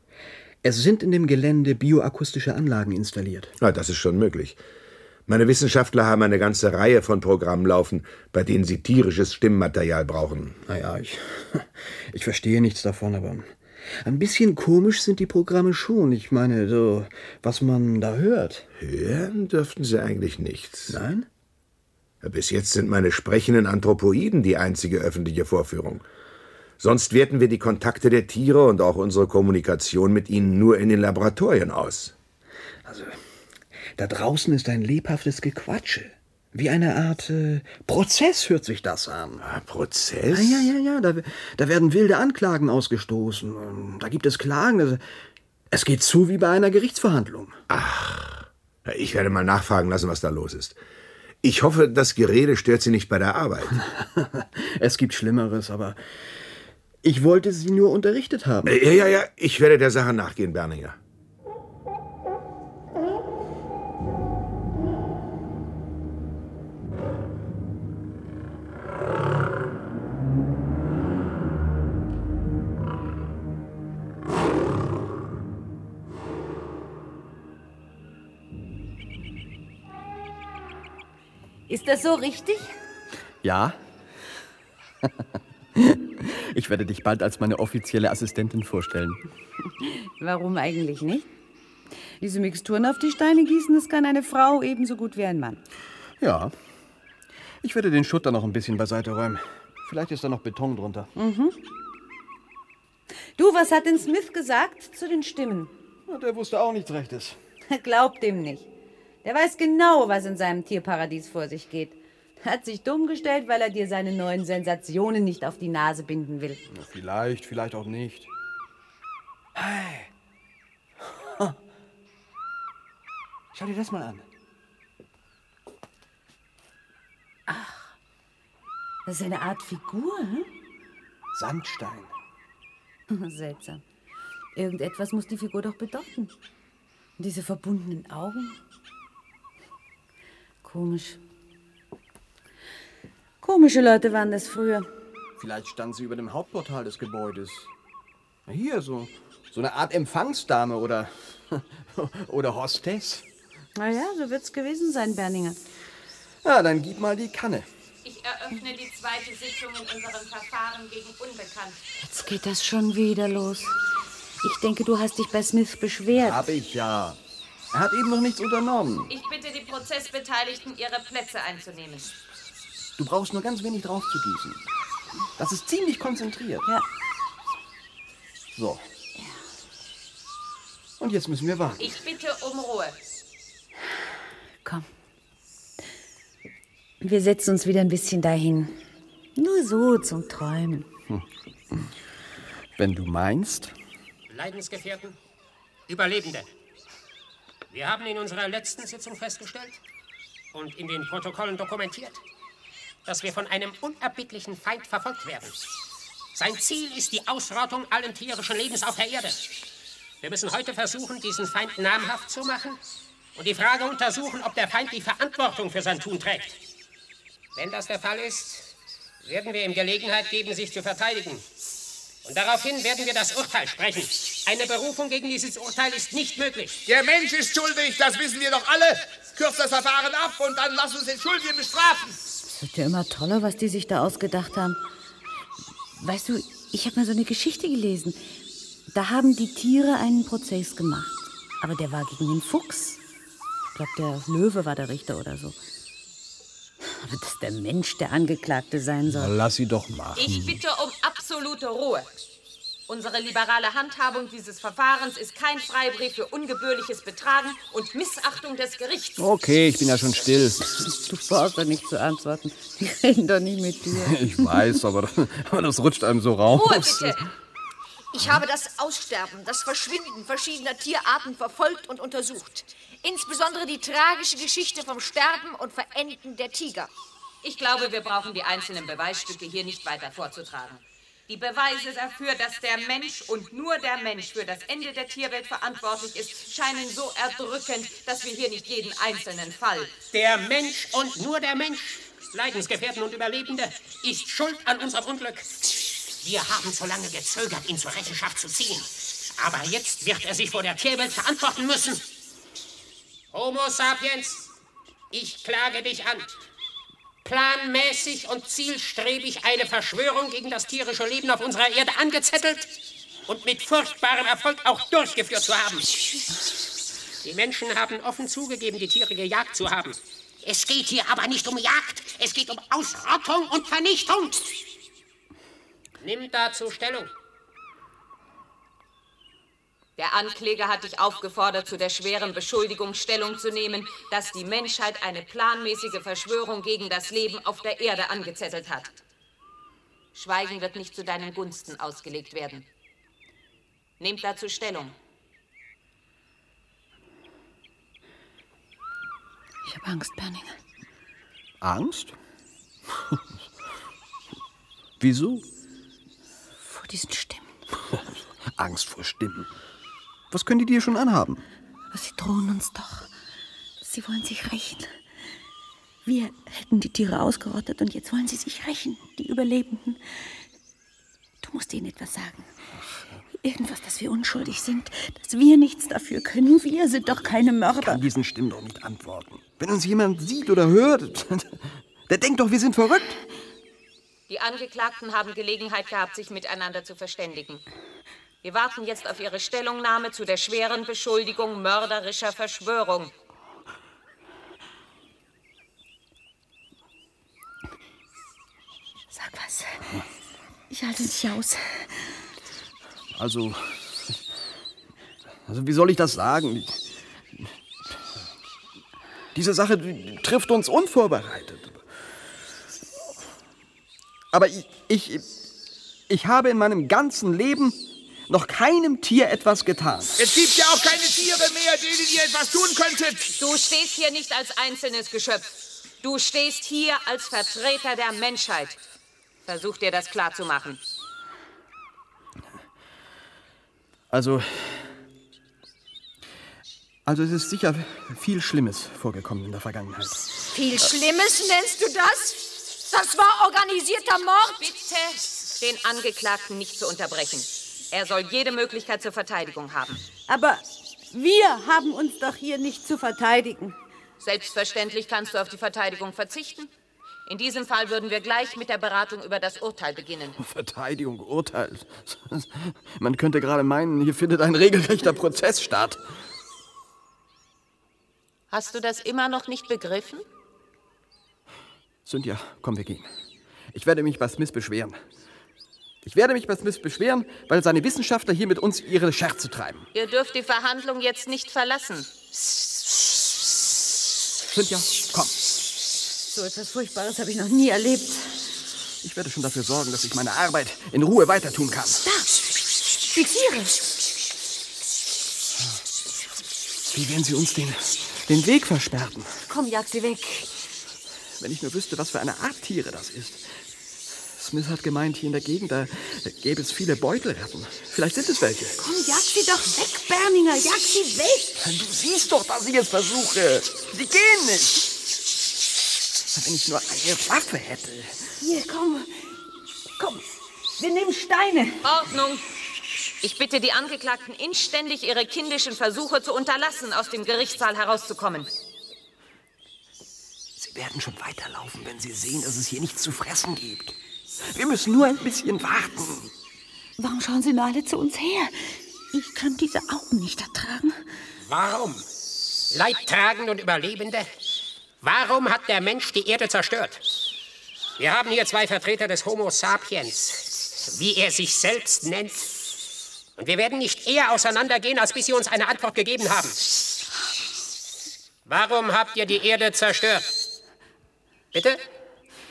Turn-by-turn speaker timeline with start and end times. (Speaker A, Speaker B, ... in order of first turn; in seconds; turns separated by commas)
Speaker A: 0.6-3.5, Speaker B: 3.6-4.6, Speaker B: 5.3-10.6, Speaker A: 10.6-18.7, Speaker B: 18.8-21.0, Speaker A: 20.9-21.3, Speaker B: 22.2-26.0, Speaker B: 26.8-32.1, Speaker A: 32.9-33.2, Speaker A: 34.0-39.4, Speaker B: 39.4-40.7, Speaker A: 40.3-45.0, Speaker A: 45.7-47.6, Speaker B: 47.7-50.8, Speaker B: 51.4-53.8, Speaker A: 53.8-56.5, Speaker A: 57.0-58.7, Speaker B: 58.7-61.0, Speaker C: 81.7-82.8, Speaker A: 83.4-83.8, Speaker A: 85.7-89.2, Speaker C: 89.8-91.3, Speaker C: 92.2-95.6, Speaker A: 96.2-96.5, Speaker A: 97.6-101.1, Speaker C: 101.2-101.6, Speaker C: 103.4-105.7, Speaker A: 106.1-107.4, Speaker C: 107.7-108.7, Speaker C: 109.2-116.6, Speaker A: 116.7-118.3, Speaker A: 119.5-120.1, Speaker A: 121.0-121.6, Speaker A: 123.5-124.3, Speaker C: 127.5-127.9, Speaker C: 129.1-130.5, Speaker A: 131.3-132.1, Speaker C: 133.1-133.8, Speaker C: 134.6-136.3, Speaker C: 137.2-138.6, Speaker C: 140.6-141.2, Speaker C: 143.4-144.9, Speaker A: 145.4-147.7, Speaker A: 148.5-153.2, Speaker C: 153.8-155.6, Speaker A: 156.4-157.7, Speaker D: 158.0-161.8, Speaker C: 162.0-163.8, Speaker C: 164.4-166.4, Speaker A: 166.1-167.2, Speaker A: 167.7-169.1, Speaker D: 169.1-172.2, Speaker A: 173.0-174.6, Speaker A: 175.4-176.7, Speaker A: 178.6-178.8, Speaker A: 181.0-181.9, Speaker D: 181.8-183.0, Speaker C: 187.0-188.8, Speaker C: 189.4-190.9, Speaker A: 191.1-191.9, Speaker A: 192.8-193.7, Speaker E: 194.3-195.2, Speaker E: 195.9-196.5, Speaker E: 197.7-199.8, Speaker E: 200.5-202.2, Speaker E: 203.1-205.6, Speaker E: 206.3-209.4, Speaker E: 210.2-212.8, Speaker E: 213.3-216.6, Speaker E: 217.6-221.5, Speaker E: 222.2-226.8, Speaker F: 226.9-232.2, Speaker C: 232.5-234.8, Speaker C: 236.0-238.2, Speaker C: 238.9-243.0, Speaker C: 243.7-245.6, Speaker C: 246.8-249.3, Speaker A: 249.1-250.6, Speaker D: 250.2-252.1, Speaker D: 252.9-259.2, Speaker A: 259.2-260.7, Speaker C: 260.8-264.3, Speaker A: 263.9-267.2, Speaker D: 266.5-267.2, Speaker G: 268.1-276.9, Speaker D: 277.4-289.9, Speaker E: 290.1-295.5, Speaker E: 296.2-302.0, Speaker E: 303.3-304.5, Speaker E: 305.1-306.4, Speaker E: 307.2-312.7, Speaker E: 313.3-316.0, Speaker E: 317.2-324.6, Speaker E: 326.0-327.1, Speaker D: 330.0-339.0, Speaker D: 340.1-342.7, Speaker D: 344.0-344.9, Speaker C: 349.6-350.6, Speaker A: 351.6-352.2, Speaker A: 352.9-353.2, Speaker A: 355.0-355.4, Speaker C: 356.6-357.6, Speaker A: 358.6-359.5, Speaker A: 360.3-361.4, Speaker C: 361.9-363.1, Speaker C: 363.8-365.0, Speaker C: 366.1-370.4, Speaker C: 371.4-372.5, Speaker C: 373.4-378.0, Speaker A: 377.8-383.2, Speaker D: 384.3-387.6, Speaker D: 388.4-393.1, Speaker C: 399.1-399.9, Speaker C: 400.7-402.2, Speaker A: 403.1-404.1, Speaker A: 405.5-406.8, Speaker A: 409.3-411.8, Speaker A: 414.3-415.3, Speaker A: 416.1-420.2, Speaker F: 420.2-423.2, Speaker D: 423.3-428.8, Speaker D: 429.4-430.8, Speaker A: 434.1-435.0, Speaker A: 437.1-440.3, Speaker G: 440.5-444.7, Speaker D: 444.6-450.0, Speaker C: 450.3-453.8, Speaker D: 454.2-456.7, Speaker D: 457.3-460.4, Speaker A: 460.4-466.0, Speaker D: 468.5-470.3, Speaker A: 472.1-473.1, Speaker A: 473.7-475.0, Speaker A: 476.0-479.9, Speaker D: 479.9-482.1, Speaker A: 484.5-485.3, Speaker C: 486.3-488.5, Speaker A: 489.0-492.0, Speaker C: 492.0-492.5, Speaker C: 493.0-493.9, Speaker A: 496.9-499.4, Speaker C: 499.5-500.6, Speaker A: 501.4-503.5, Speaker A: 504.3-508.8, Speaker C: 508.8-511.6, Speaker A: 511.6-514.9, Speaker A: 516.3-518.2, Speaker C: 518.4-519.4, Speaker C: 520.0-521.9, Speaker D: 521.8-522.5, Speaker D: 523.2-528.5, Speaker A: 530.6-536.3, Speaker C: 537.0-541.0, Speaker E: 541.5-542.1, Speaker E: 542.7-544.3, Speaker E: 545.0-547.0, Speaker E: 548.0-552.5, Speaker E: 553.4-556.6, Speaker E: 558.5-560.4, Speaker E: 561.5-561.8